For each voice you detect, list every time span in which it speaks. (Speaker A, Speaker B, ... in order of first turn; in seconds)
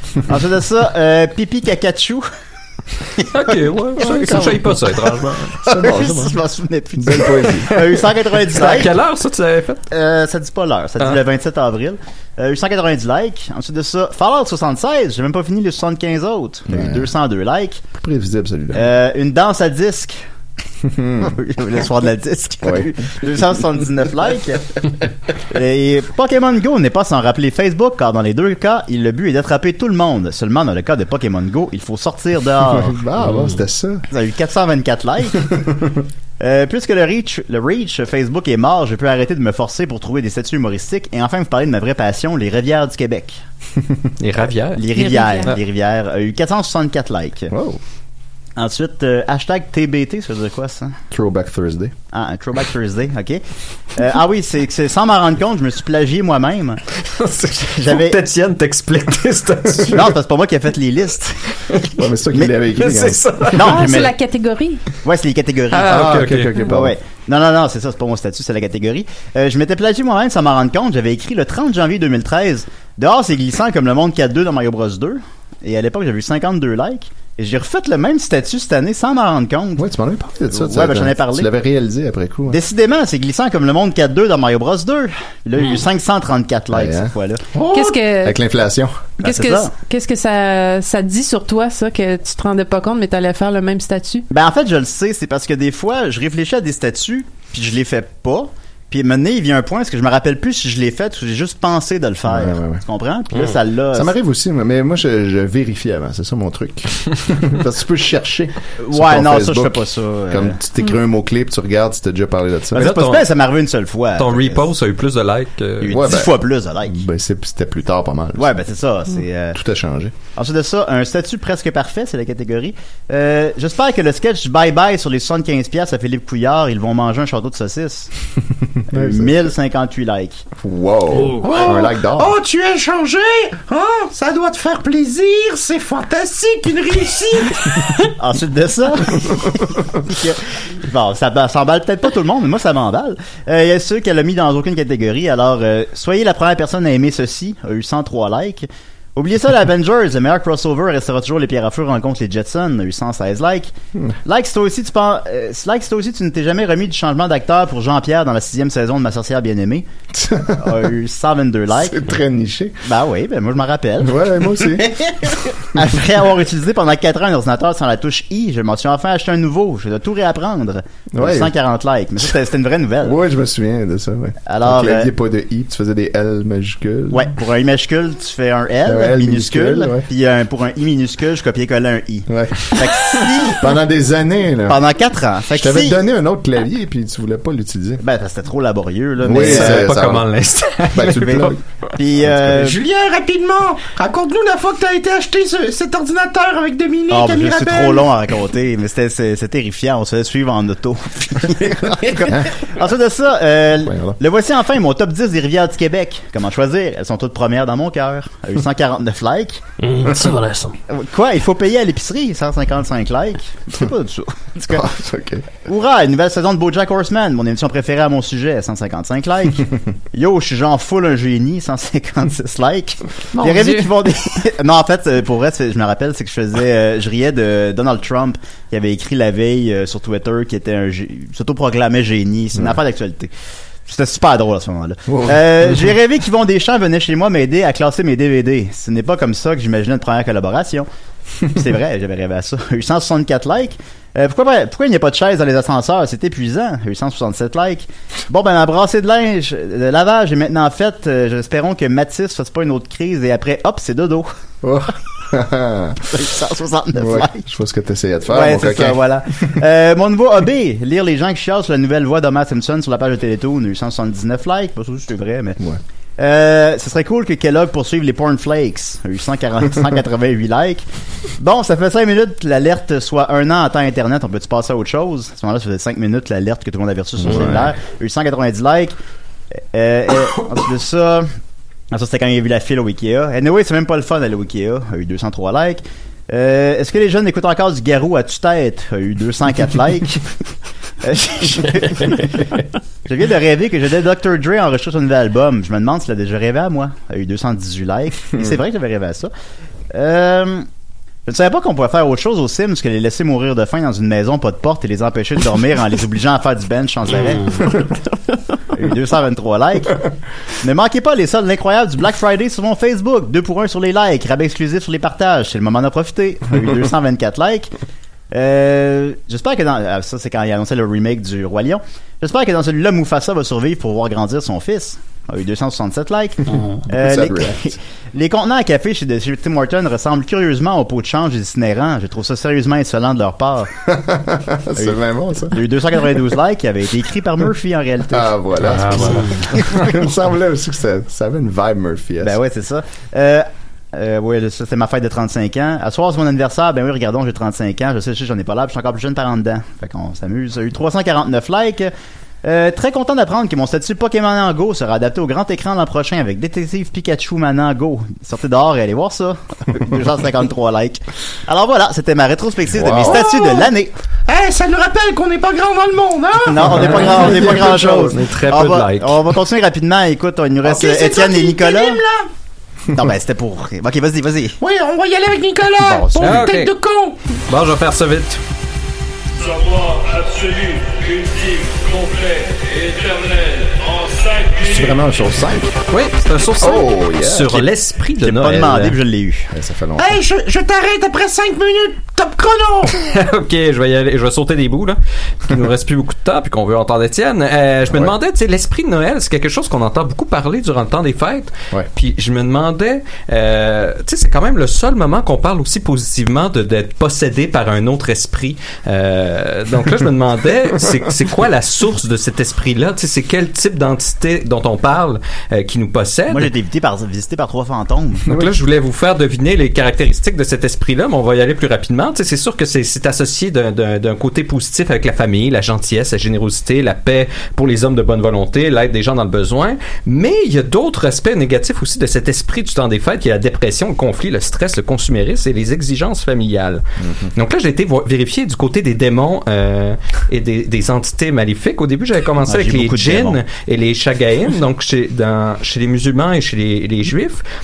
Speaker A: 0.2-2.3, 4.0-4.5, 5.6-8.9, 9.9-17.9, 18.7-20.2, 21.2-24.9, 25.5-33.0, 34.1-35.5, 36.4-43.4, 44.7-47.5, 48.6-51.0, 52.1-53.4, 53.9-56.8, 57.6-58.2, 59.9-61.4, 63.5-64.1, 65.0-79.8, 80.5-81.5, 82.5-87.4, 89.2-89.7, 94.3-104.1, 108.8-110.6, 112.7-114.6, 115.8-117.0, 118.4-119.6, 120.3-128.1, 128.9-130.4, 138.0-153.7, 154.2-159.9, 160.6-162.0, 162.8-164.2, 165.7-173.2, 174.4-175.1, 177.1-183.6, 184.7-186.0, 188.0-189.9, 191.1-192.8, 197.1-209.6, 210.9-214.8, 215.6-233.3, 233.8-240.9, 241.5-254.3, 256.1-257.4, 258.3-265.6, 266.2-270.8, 271.4-278.9, 279.7-281.3, 281.9-290.2, 291.0-299.3, 299.9-300.7, 301.2-307.9, 308.7-310.0, 310.6-317.7, 318.3-333.7, 335.5-339.8, 342.2-351.9, 352.4-363.9, 366.4-372.0, 372.9-374.6, 375.8-376.5, 388.2-389.5, 416.3-418.3, 442.5-443.4
Speaker B: 3.3-5.5, 8.5-9.8, 44.2-44.9, 57.1-60.1, 62.8-64.0, 65.7-66.5, 112.8-113.3, 114.2-116.0, 189.3-191.5, 366.8-369.2, 376.2-376.7, 377.5-378.4, 385.9-389.0, 393.0-416.5, 418.3-436.8, 437.3-447.4
Speaker C: 4.0-4.8, 5.6-6.4, 7.0-8.0, 16.7-17.1, 17.9-18.9, 20.8-21.3, 22.6-22.9, 32.6-34.0, 47.5-47.8, 51.1-51.9, 62.0-63.5, 65.8-67.0, 79.8-82.6, 86.7-87.1, 88.2-89.0, 102.2-102.8, 103.9-112.9, 115.9-118.6, 119.5-120.1, 128.9-129.5, 130.6-132.4, 160.1-160.8, 161.7-162.8, 164.0-164.9, 171.1-171.5, 173.0-177.3, 178.8-180.1, 182.3-184.8, 185.5-188.0, 189.2-190.2, 190.9-191.6, 192.2-192.7, 203.8-204.2, 214.7-215.5, 235.1-235.9, 254.6-256.1, 256.9-259.0, 277.2-277.7, 326.9-327.7, 333.9-335.6, 338.1-342.4, 362.7-363.2, 366.9-367.9, 384.6-385.7, 386.6-387.6, 389.5-390.2, 397.9-398.1, 437.0-437.3
Speaker D: 44.9-45.5, 63.6-64.8, 87.7-88.4, 89.2-94.2
Speaker E: 87.5-88.0, 131.4-137.6, 192.6-198.1, 363.1-363.7, 364.3-367.5, 370.6-372.3, 374.6-377.1, 390.0-392.9
Speaker F: 131.2-131.5, 209.8-210.8, 338.7-339.4
Speaker G: 379.4-385.0